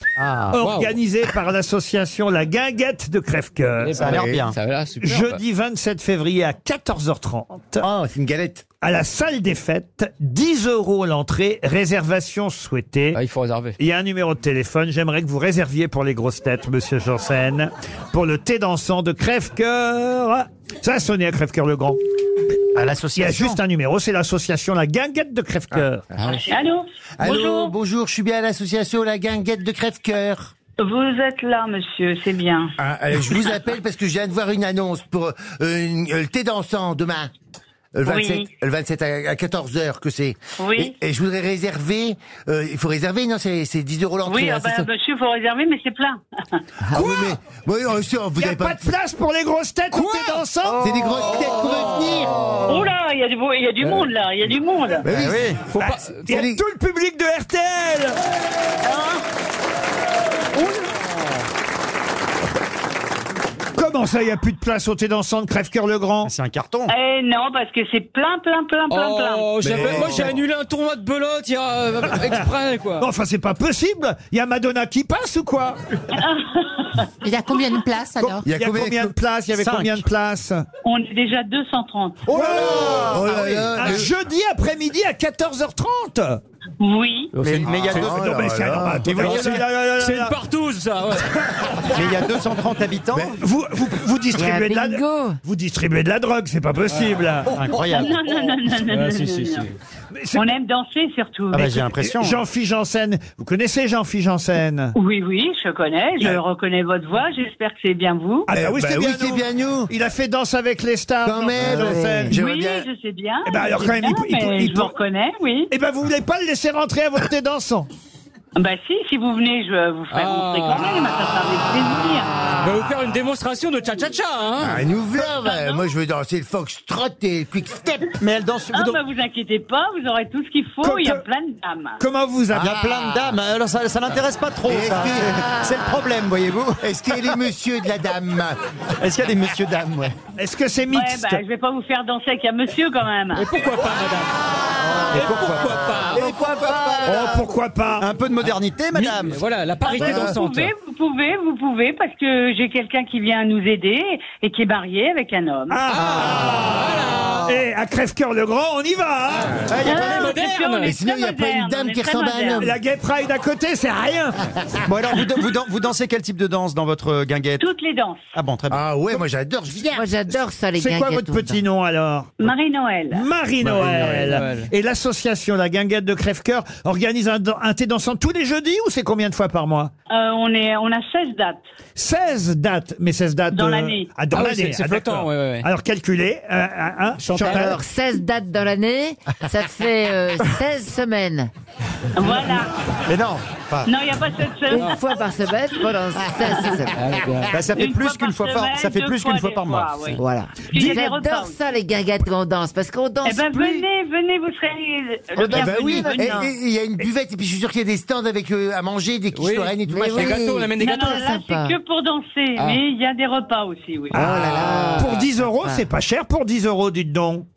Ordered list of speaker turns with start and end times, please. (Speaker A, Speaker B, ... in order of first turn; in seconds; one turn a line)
Speaker A: 0.5-4.1
Speaker B: 0.6-1.0
Speaker B: 3.8-5.4
Speaker C: 4.0-4.5
Speaker D: 4.0-4.4
Speaker A: 5.0-7.8
Speaker D: 7.8-8.6
Speaker A: 8.8-13.2
Speaker B: 13.1-13.8
Speaker A: 13.8-22.0
Speaker C: 22.8-23.6
Speaker A: 23.1-26.1
Speaker E: 26.4-27.7
Speaker D: 27.2-30.5
Speaker E: 30.8-32.8
Speaker D: 32.8-37.3
Speaker D: 38.0-44.9
Speaker E: 38.1-38.5
Speaker E: 40.6-40.9
Speaker E: 44.3-46.6
Speaker D: 46.9-48.8
Speaker A: 46.9-47.3
Speaker A: 48.4-50.9
Speaker B: 49.9-50.4
Speaker D: 50.8-52.8
Speaker E: 52.6-55.1
Speaker D: 55.0-55.5
Speaker C: 55.1-55.7
Speaker B: 55.7-56.2
Speaker A: 55.7-58.2
Speaker D: 56.3-56.6
Speaker E: 58.8-59.2
Speaker E: 60.6-60.9
Speaker A: 63.8-66.3
Speaker C: 66.2-66.9
Speaker E: 66.9-70.1
Speaker B: 68.9-73.1
Speaker D: 69.6-70.4
Speaker A: 73.0-75.8
Speaker E: 76.1-77.1
Speaker A: 78.2-80.7
Speaker D: 78.4-79.1
Speaker C: 79.5-80.1
Speaker E: 80.8-82.4
Speaker C: 82.3-84.1
Speaker A: 82.3-83.1
Speaker D: 82.4-84.1
Speaker A: 83.7-86.4
Speaker E: 86.8-87.3
Speaker B: 87.3-88.1
Speaker C: 87.4-88.3
Speaker D: 87.7-89.3
Speaker A: 87.9-90.4
Speaker C: 89.0-89.5
Speaker B: 89.2-91.8
Speaker C: 91.9-93.4
Speaker A: 93.4-97.6
Speaker F: 94.4-95.4
Speaker C: 97.5-98.2
Speaker E: 97.7-99.7
Speaker B: 98.9-99.7
Speaker A: 100.1-100.5
Speaker E: 100.3-101.7
Speaker C: 101.5-102.4
Speaker A: 101.5-104.9
Speaker E: 105.0-108.5
Speaker A: 108.5-112.4
Speaker D: 108.5-109.9
Speaker D: 111.2-112.9
Speaker F: 111.8-112.3
Speaker E: 112.3-115.7
Speaker A: 113.5-114.9
Speaker A: 115.7-117.9
Speaker E: 118.5-122.4
Speaker B: 120.1-120.9
Speaker B: 122.6-124.8
Speaker D: 124.6-128.2
Speaker E: 125.2-125.9
Speaker C: 128.2-129.0
Speaker E: 128.7-132.0
Speaker A: 130.8-131.2
Speaker A: 132.0-132.7
Speaker D: 132.5-133.3
Speaker C: 132.6-137.3
Speaker D: 134.7-135.3
Speaker D: 136.8-138.6
Speaker C: 139.0-140.2
Speaker A: 140.4-141.4
Speaker E: 140.9-143.4
Speaker B: 143.3-144.4
Speaker C: 144.8-147.4
Speaker B: 145.0-146.2
Speaker D: 146.1-147.0
Speaker A: 147.0-148.1
Speaker C: 148.0-149.4
Speaker B: 149.2-150.7
Speaker E: 149.8-155.8
Speaker C: 150.1-150.3
Speaker A: 155.7-159.6
Speaker B: 155.9-157.6
Speaker B: 159.3-160.9
Speaker C: 159.7-160.3
Speaker E: 159.8-162.7
Speaker D: 160.8-162.8
Speaker A: 162.6-164.6
Speaker C: 164.9-167.6
Speaker E: 167.6-168.2
Speaker C: 168.3-168.9
Speaker D: 168.7-170.1
Speaker F: 169.9-171.6
Speaker A: 170.3-172.5
Speaker E: 172.4-173.3
Speaker A: 173.1-179.9
Speaker C: 173.6-174.3
Speaker B: 173.8-174.7
Speaker E: 180.1-181.6
Speaker A: 182.0-187.8
Speaker E: 183.5-184.1
Speaker B: 184.3-185.7
Speaker B: 187.2-187.8
Speaker F: 187.6-191.5
Speaker E: 192.2-192.7
Speaker C: 193.1-193.9
Speaker E: 193.8-195.0
Speaker F: 194.7-197.0
Speaker B: 194.8-195.0
Speaker B: 196.9-197.6
Speaker C: 197.5-200.1
Speaker E: 197.7-201.7
Speaker F: 200.2-203.8
Speaker E: 203.2-206.5
Speaker D: 205.4-210.4
Speaker B: 209.3-211.3
Speaker F: 209.9-211.8
Speaker E: 210.8-214.2
Speaker A: 214.1-217.5
Speaker F: 214.2-215.9